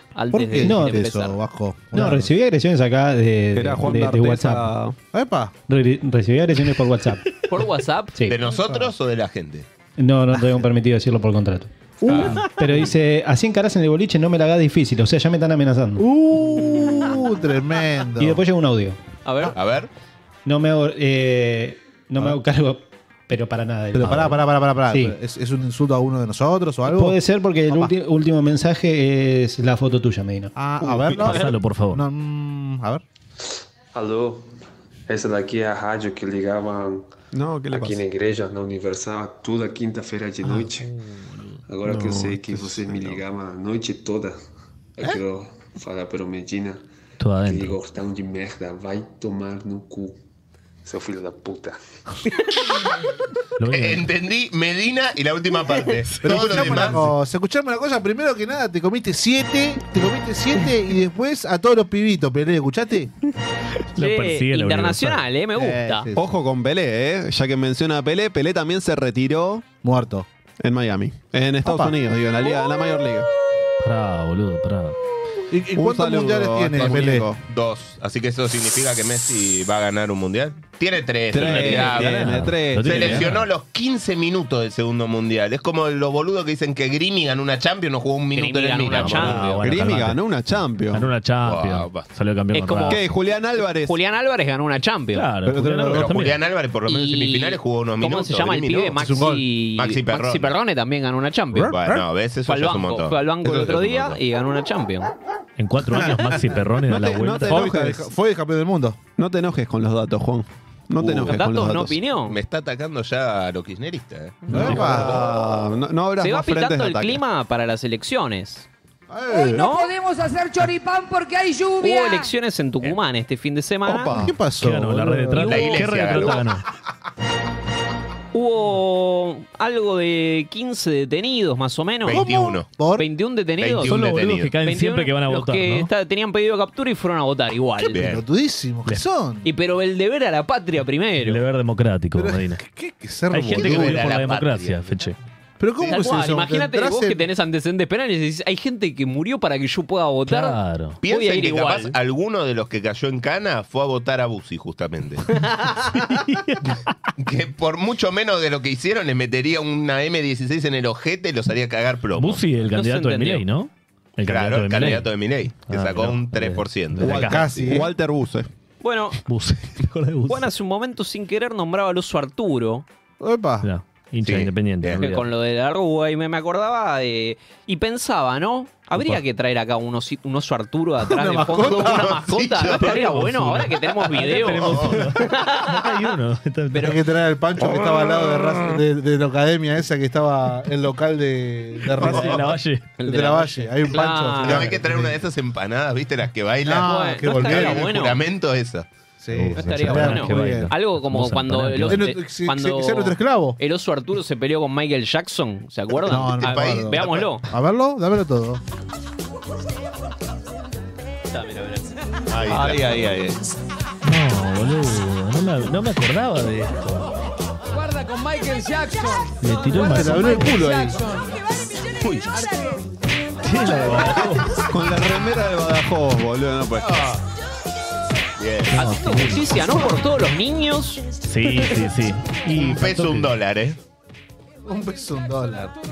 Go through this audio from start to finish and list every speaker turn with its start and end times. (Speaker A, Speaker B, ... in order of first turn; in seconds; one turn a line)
Speaker A: 0.1-1.4
Speaker B: 0.3-2.3
Speaker C: 0.6-1.0
Speaker C: 1.9-4.7
Speaker D: 3.5-5.0
Speaker B: 5.1-5.5
Speaker C: 5.7-7.3
Speaker A: 7.5-8.3
Speaker C: 8.1-8.4
Speaker E: 8.2-9.7
Speaker C: 10.0-16.0
Speaker B: 10.3-10.6
Speaker E: 12.1-12.4
Speaker B: 16.0-18.4
Speaker C: 18.2-19.0
Speaker A: 19.2-19.6
Speaker E: 19.5-19.9
Speaker C: 20.4-25.1
Speaker B: 23.9-27.9
Speaker F: 24.1-24.4
Speaker C: 26.9-30.8
Speaker B: 30.5-33.0
Speaker F: 31.1-32.0
Speaker G: 33.9-34.5
Speaker G: 35.1-37.1
Speaker D: 37.3-38.0
Speaker G: 37.7-40.9
Speaker G: 41.7-44.3
Speaker D: 41.8-43.2
Speaker G: 45.0-46.8
Speaker F: 47.2-47.8
Speaker G: 47.4-50.2
Speaker G: 50.8-51.8
Speaker F: 53.6-54.1
Speaker E: 53.7-57.0
Speaker F: 56.1-56.8
Speaker B: 56.2-63.1
Speaker F: 64.0-65.2
Speaker A: 64.0-66.1
Speaker B: 65.5-66.2
Speaker D: 66.1-69.6
Speaker B: 69.8-70.3
Speaker D: 70.6-73.3
Speaker B: 71.6-71.9
Speaker F: 73.8-75.0
Speaker B: 75.5-77.2
Speaker D: 75.7-77.4
Speaker E: 76.8-89.5
Speaker D: 81.3-83.3
Speaker F: 81.4-83.5
Speaker A: 88.3-89.7
Speaker F: 88.9-90.2
Speaker D: 89.6-91.1
Speaker F: 90.9-93.0
Speaker E: 91.4-92.1
Speaker A: 92.5-93.0
Speaker D: 92.9-94.0
Speaker A: 93.7-95.2
Speaker F: 95.1-96.4
Speaker B: 95.5-96.2
Speaker E: 95.9-99.0
Speaker A: 96.9-101.8
Speaker B: 99.0-99.4
Speaker E: 99.8-100.5
Speaker E: 101.6-104.2
Speaker A: 102.5-105.1
Speaker F: 105.6-107.8
Speaker B: 105.9-106.6
Speaker D: 106.9-108.1
Speaker B: 107.4-109.0
Speaker D: 109.2-112.0
Speaker E: 111.0-111.4
Speaker A: 111.2-112.4
Speaker E: 112.3-115.2
Speaker D: 114.5-117.2
Speaker B: 114.5-115.3
Speaker A: 116.2-118.7
Speaker B: 119.1-119.7
Speaker H: 119.3-122.3
Speaker A: 119.5-119.9
Speaker A: 121.8-124.1
Speaker D: 123.8-124.3
Speaker B: 124.1-125.7
Speaker F: 124.6-126.6
Speaker E: 125.3-126.4
Speaker A: 125.4-126.3
Speaker A: 128.3-132.2
Speaker E: 132.1-132.7
Speaker B: 132.1-133.1
Speaker A: 132.9-134.0
Speaker E: 133.6-134.5
Speaker F: 133.9-135.9
Speaker A: 134.6-138.0
Speaker B: 137.9-139.5
Speaker E: 137.9-138.2
Speaker A: 139.4-141.4
Speaker F: 141.2-142.6
Speaker B: 142.2-144.1
Speaker F: 143.3-145.2
Speaker E: 143.5-144.8
Speaker B: 145.6-147.2
Speaker E: 145.8-146.0
Speaker A: 145.8-151.9
Speaker F: 150.3-151.0
Speaker E: 151.0-155.3
Speaker A: 155.3-155.7
Speaker F: 156.1-156.8
Speaker E: 157.2-162.4
Speaker F: 162.2-165.1
Speaker A: 162.7-163.4
Speaker E: 164.2-167.7
Speaker F: 165.7-167.4
Speaker D: 167.0-168.5
Speaker B: 167.1-167.9
Speaker A: 168.8-169.2
Speaker F: 169.2-170.4
Speaker A: 170.3-172.8
Speaker B: 173.2-173.7
Speaker F: 173.6-175.3
Speaker E: 174.2-175.0
Speaker A: 175.0-186.1
Speaker F: 178.9-179.2
Speaker B: 181.0-182.2
Speaker E: 181.6-183.1
Speaker F: 182.7-187.0
Speaker E: 184.3-185.1
Speaker A: 186.7-187.0
Speaker B: 186.8-195.2
Speaker F: 191.9-193.0
Speaker E: 192.0-192.4
Speaker A: 193.0-194.8
Speaker E: 194.4-198.8
Speaker B: 196.6-197.9
Speaker A: 196.8-198.2
Speaker B: 199.2-200.7
Speaker F: 199.3-202.1
Speaker A: 199.5-207.5
Speaker B: 201.9-203.6
Speaker B: 206.0-208.6
Speaker E: 206.4-207.3
Speaker A: 211.3-211.9
Speaker E: 212.3-213.3
Speaker D: 212.5-213.1
Speaker F: 214.0-217.1
Speaker H: 217.7-221.4
Speaker F: 219.4-220.5
Speaker B: 219.8-221.0
Speaker E: 222.0-222.3
Speaker H: 222.4-222.6
Speaker F: 223.4-224.6
Speaker D: 224.7-227.0
Speaker E: 226.9-227.2
Speaker E: 228.4-228.8
Speaker F: 228.7-229.7
Speaker A: 228.7-231.1
Speaker F: 231.2-233.3
Speaker E: 232.5-233.8
Speaker B: 234.6-235.7